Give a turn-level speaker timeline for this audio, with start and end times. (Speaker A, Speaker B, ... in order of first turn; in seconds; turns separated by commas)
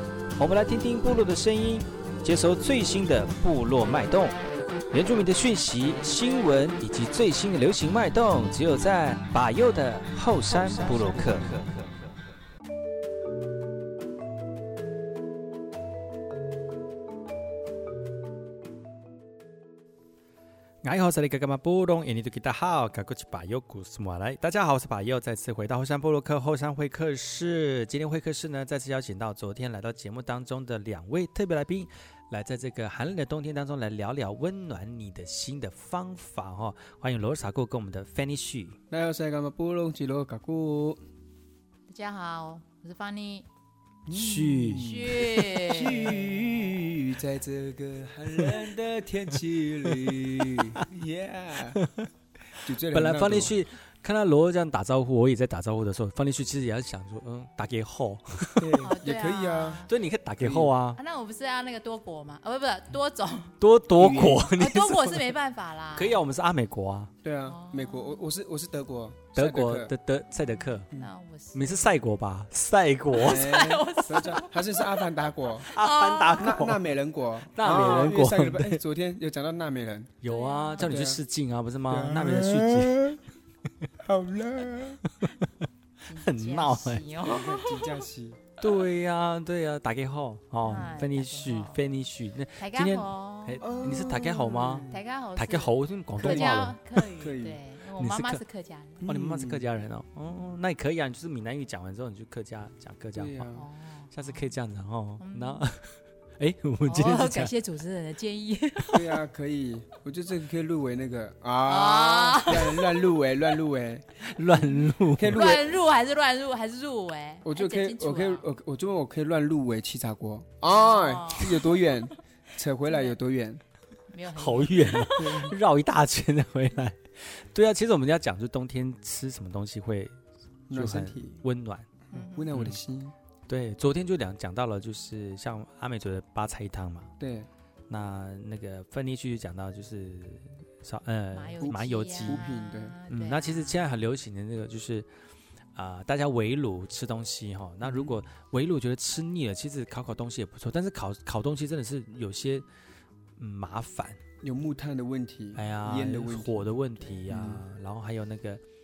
Speaker A: 0.4-4.4, Speaker A: 4.9-11.8, Speaker A: 20.8-38.8, Speaker B: 38.9-41.0, Speaker C: 41.9-43.5, Speaker B: 44.1-51.8, Speaker A: 44.1-45.4, Speaker C: 44.7-46.3, Speaker A: 49.9-50.6, Speaker B: 52.6-53.6, Speaker A: 52.7-58.9, Speaker B: 58.6-59.9, Speaker C: 58.8-59.9, Speaker A: 59.9-61.0, Speaker B: 60.4-60.7, Speaker C: 61.0-63.6, Speaker A: 63.6-65.4, Speaker B: 64.0-64.5, Speaker C: 64.5-66.2, Speaker A: 66.0-67.1, Speaker B: 67.2-69.9, Speaker C: 67.5-68.3, Speaker A: 69.3-70.9, Speaker C: 70.4-72.0, Speaker A: 71.5-73.5, Speaker C: 73.1-76.6, Speaker B: 73.2-75.7, Speaker A: 75.7-76.8, Speaker B: 76.3-80.1, Speaker A: 77.5-78.8, Speaker A: 80.2-83.2, Speaker C: 80.2-80.9, Speaker B: 80.8-81.2, Speaker B: 81.9-83.2, Speaker B: 84.0-85.0, Speaker C: 86.0-87.8, Speaker A: 86.2-87.0, Speaker B: 87.2-88.5, Speaker A: 88.6-97.0, Speaker C: 90.6-91.9, Speaker C: 92.6-93.7, Speaker B: 93.6-95.0, Speaker C: 94.8-99.1, Speaker B: 96.2-96.7, Speaker B: 97.2-97.6, Speaker A: 98.0-98.4, Speaker B: 99.0-99.7, Speaker A: 99.0-103.5, Speaker B: 103.1-103.7, Speaker C: 103.5-104.5, Speaker A: 104.1-107.5, Speaker C: 105.2-105.7, Speaker C: 106.8-109.1, Speaker B: 108.9-115.8, Speaker C: 111.7-112.9, Speaker A: 114.2-115.6, Speaker C: 115.3-118.5, Speaker B: 117.4-123.6, Speaker C: 120.7-121.9, Speaker C: 122.8-123.2, Speaker C: 124.1-125.4, Speaker A: 124.3-130.2, Speaker B: 125.2-125.6, Speaker A: 130.7-131.9, Speaker B: 130.7-131.4, Speaker C: 132.1-132.6, Speaker B: 132.1-133.2, Speaker A: 132.5-132.8, Speaker A: 133.5-137.1, Speaker B: 137.2-137.5, Speaker A: 137.9-142.4, Speaker C: 141.3-143.9, Speaker B: 142.3-143.0, Speaker A: 143.1-145.1, Speaker A: 145.8-152.7, Speaker B: 147.8-148.2, Speaker A: 153.4-154.2, Speaker B: 154.4-156.7, Speaker A: 155.6-158.6, Speaker C: 157.0-157.3, Speaker B: 157.3-157.6